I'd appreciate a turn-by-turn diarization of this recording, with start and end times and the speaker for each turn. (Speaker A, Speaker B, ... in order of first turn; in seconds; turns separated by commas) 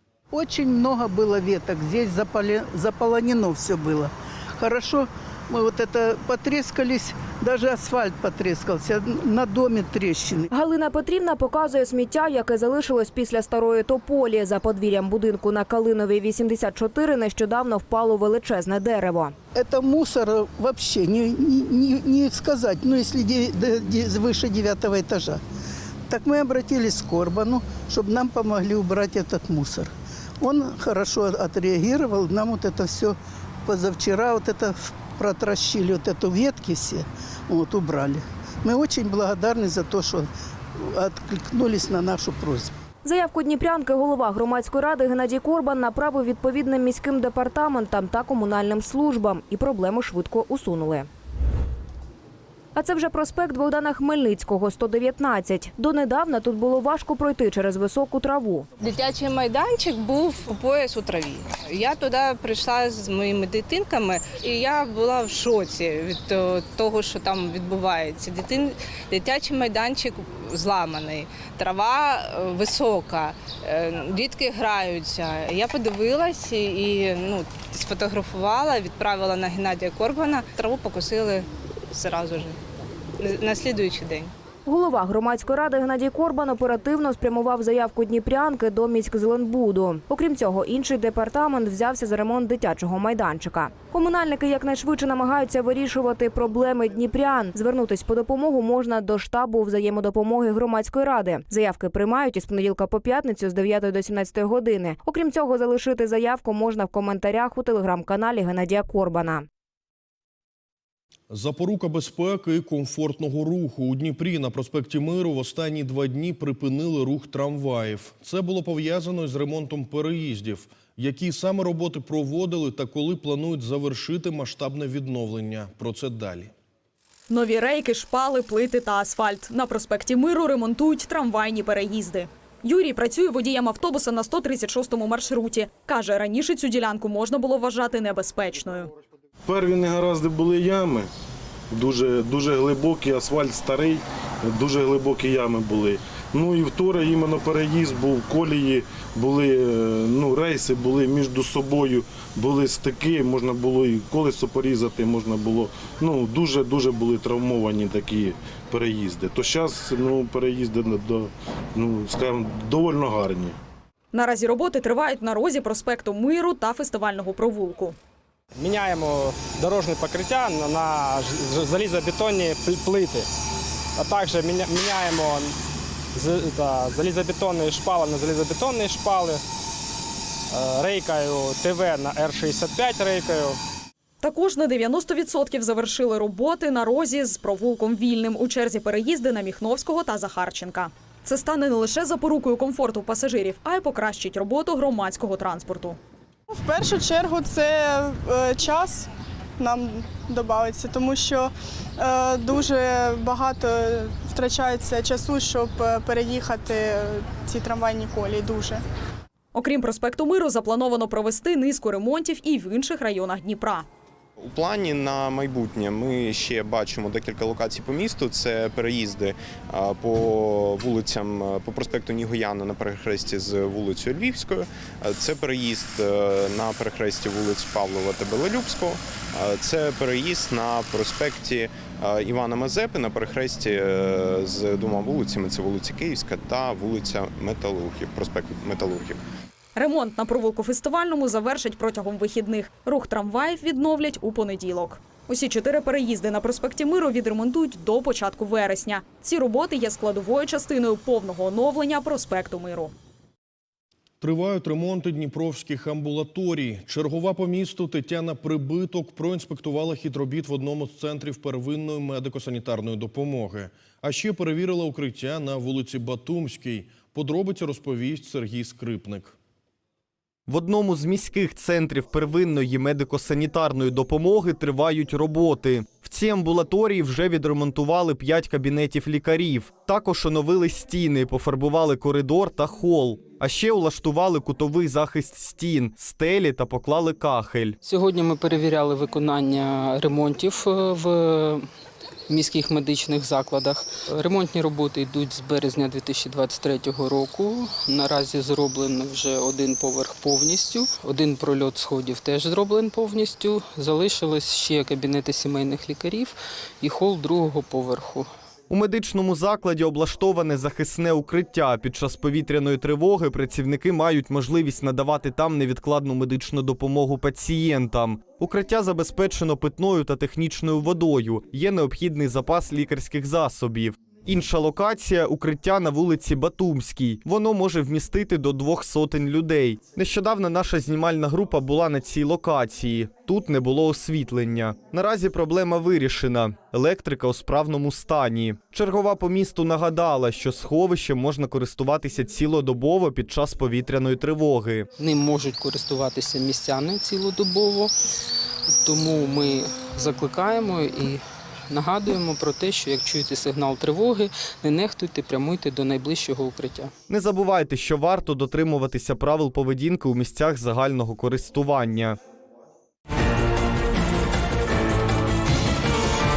Speaker A: 0.3-10.5, Speaker B: 10.5-19.3, Speaker A: 19.6-25.4, Speaker A: 26.1-40.3, Speaker A: 40.8-42.7, Speaker B: 43.0-51.1, Speaker B: 52.8-58.7, Speaker C: 58.8-82.6, Speaker C: 83.2-84.3, Speaker B: 84.7-109.5, Speaker D: 111.3-126.5, Speaker E: 127.3-138.9, Speaker F: 139.4-141.1, Speaker F: 141.7-163.6, Speaker E: 164.1-168.0, Speaker G: 168.5-173.3, Speaker G: 174.0-175.5, Speaker G: 176.2-179.4, Speaker G: 180.5-183.6, Speaker E: 184.2-196.0, Speaker H: 196.5-208.8, Speaker E: 209.5-213.9, Speaker I: 214.4-239.2, Speaker E: 239.7-252.9, Speaker D: 254.2-269.4, Speaker J: 270.5-287.8, Speaker K: 287.8-291.6, Speaker K: 292.3-308.3, Speaker J: 308.7-344.9, Speaker K: 345.0-347.9, Speaker K: 348.7-356.9, Speaker J: 357.1-362.2